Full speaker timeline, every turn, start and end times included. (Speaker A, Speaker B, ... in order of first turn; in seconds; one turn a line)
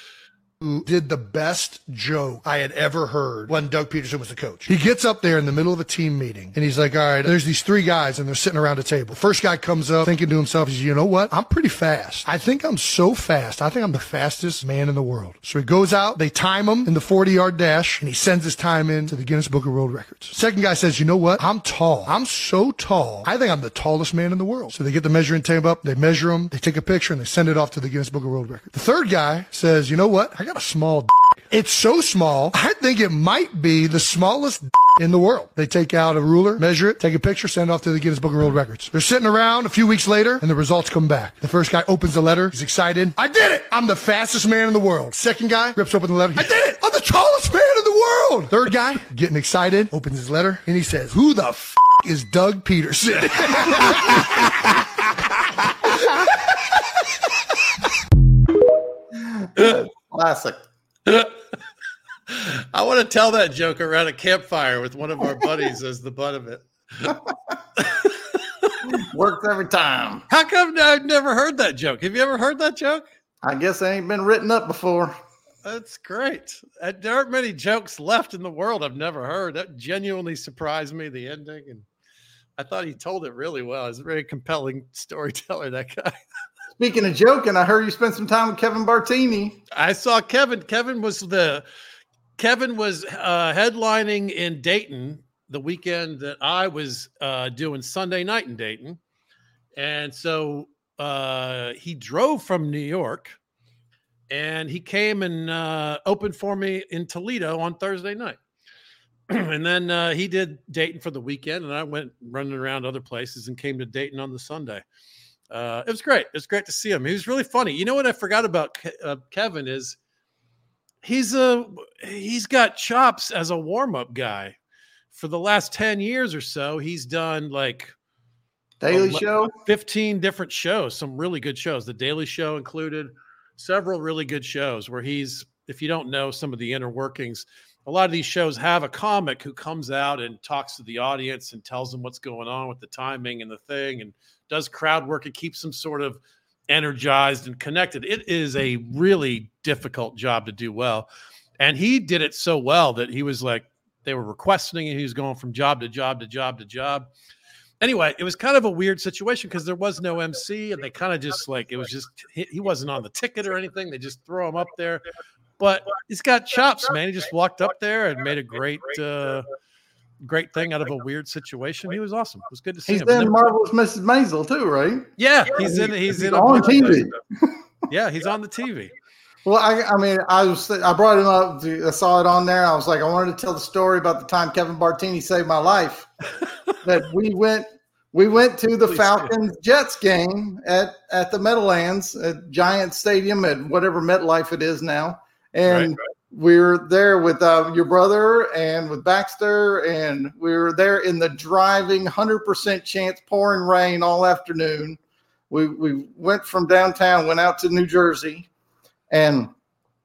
Speaker A: 0.6-54.9
Speaker A: 55.6-56.2
Speaker B: 59.1-60.6
Speaker C: 61.1-61.3
Speaker C: 62.3-67.2
Speaker C: 67.8-68.8
Speaker B: 68.9-70.2
Speaker C: 70.3-73.0
Speaker B: 73.4-75.2
Speaker C: 75.6-81.8
Speaker C: 82.6-86.2
Speaker B: 86.8-89.6
Speaker C: 89.7-91.6
Speaker C: 92.4-99.0
Speaker C: 99.8-103.4
Speaker C: 104.3-108.4
Speaker C: 109.3-114.8
Speaker C: 115.5-120.0
Speaker C: 121.0-124.6
Speaker C: 125.1-127.9
Speaker B: 128.8-129.5
Speaker C: 128.9-151.1
Speaker C: 151.6-157.1
Speaker C: 157.8-165.0
Speaker C: 165.6-169.5
Speaker C: 170.2-173.5
Speaker B: 172.9-177.6
Speaker C: 175.2-177.1
Speaker C: 177.9-178.9
Speaker B: 179.4-186.1
Speaker B: 186.8-205.0
Speaker C: 188.9-189.3
Speaker C: 195.7-195.9
Speaker B: 205.5-208.5
Speaker B: 209.1-209.5